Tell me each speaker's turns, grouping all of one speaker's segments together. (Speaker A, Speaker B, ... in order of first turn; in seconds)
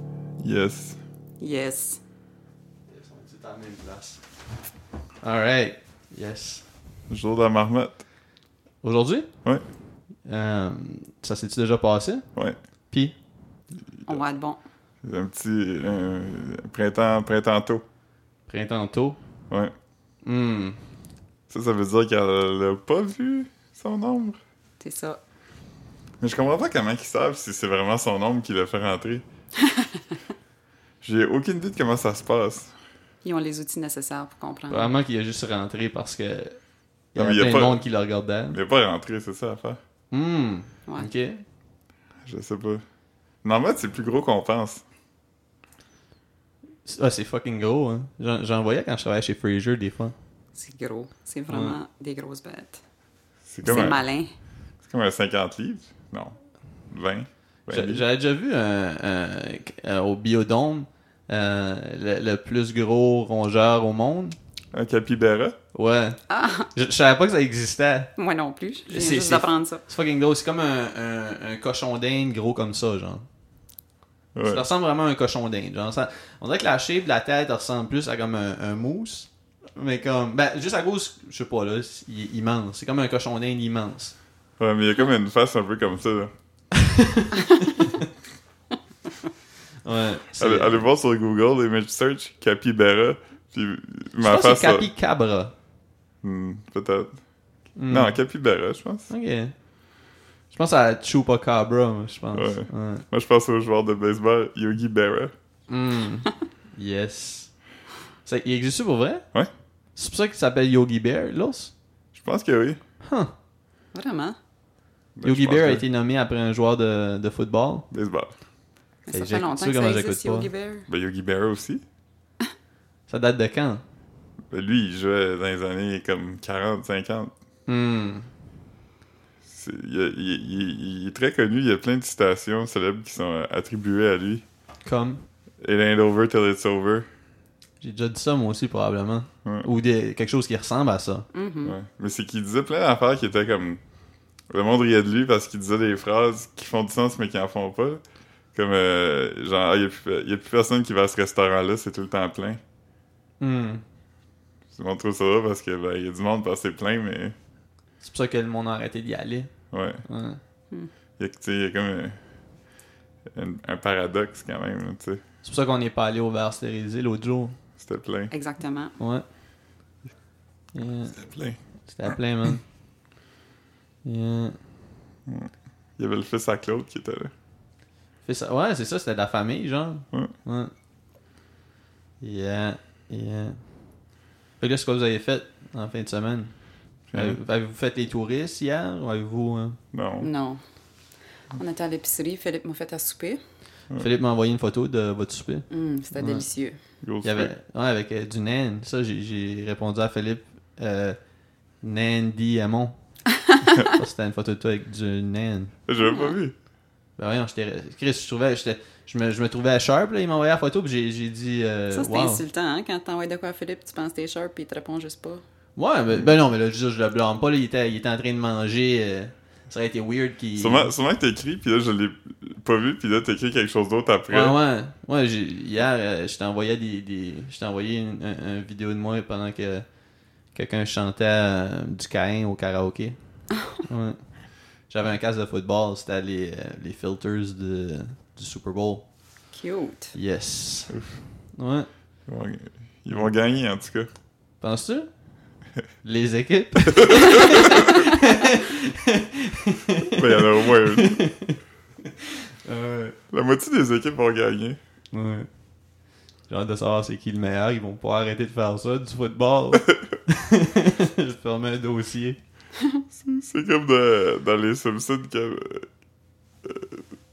Speaker A: 0.4-1.0, 7.1-8.0, 15.0-17.8, 21.5-24.4, 26.2-29.2, 31.0-32.7, 37.1-37.8, 38.5-39.8, 42.2-42.8, 43.4-44.8, 53.5-54.0, 54.8-56.4, 56.9-58.0, 64.7-65.5, 74.3-74.6, 84.6-86.3, 90.4-94.9, 96.2-97.2, 97.9-99.1, 102.3-105.3, 112.1-112.8, 115.2-115.8, 117.9-118.3, 120.9-121.8, 124.5-127.3, 129.4-134.4, 135.6-137.1, 141.6-143.8, 144.5-148.0, 148.5-152.6, 154.7-157.3, 159.7-160.0, 161.2-162.2, 163.3-165.2, 167.8-168.3, 171.1-172.1, 175.2-177.3, 187.1-187.4, 189.9-190.3, 197.0-197.5, 205.9-206.5, 220.6-224.6, 240.9-241.2, 242.3-244.1, 247.1-247.9, 250.1-251.2, 253.3-254.8, 263.1-265.9, 266.6-267.0
Speaker B: 1.4-2.0, 14.1-14.6, 24.8-25.2, 29.6-30.0, 33.2-34.9, 50.5-52.8, 53.6-54.3, 66.3-66.7, 68.2-69.8, 113.9-114.4, 119.1-120.9, 141.3-141.8, 168.3-168.9, 190.2-190.6, 191.5-193.4, 195.7-196.8, 206.0-206.3, 211.9-215.4, 239.5-240.1
Speaker C: 2.9-4.2, 5.2-6.6, 8.8-9.3, 10.2-12.3, 18.5-19.2, 20.2-20.8, 34.7-36.6, 37.1-38.6, 40.1-41.4, 46.9-50.1, 51.5-51.8, 53.6-54.0, 57.7-64.3, 65.7-66.2, 66.7-68.1, 68.9-73.2, 74.4-84.2, 86.8-88.1, 89.8-90.8, 94.2-95.5, 97.8-98.2, 99.1-99.5, 100.5-103.0, 105.7-107.5, 108.2-109.2, 110.0-111.7, 113.0-113.3, 115.2-117.9, 119.1-120.5, 123.1-123.8, 127.7-128.3, 134.8-135.2, 137.8-141.3, 153.4-153.8, 158.0-159.5, 160.0-160.4, 165.4-167.6, 169.0-169.2, 170.7-171.2, 171.9-172.6, 174.0-174.6, 178.2-180.7, 182.2-183.6, 184.6-186.5, 187.1-189.8, 194.0-196.4, 197.2-201.2, 201.8-203.0, 203.7-205.7, 207.2-212.4, 215.8-220.9, 224.3-229.8, 230.5-233.2, 233.8-234.2, 234.9-239.0, 240.1-240.9, 241.6-241.9, 244.6-245.1, 246.0-253.2, 255.1-255.5, 256.5-262.4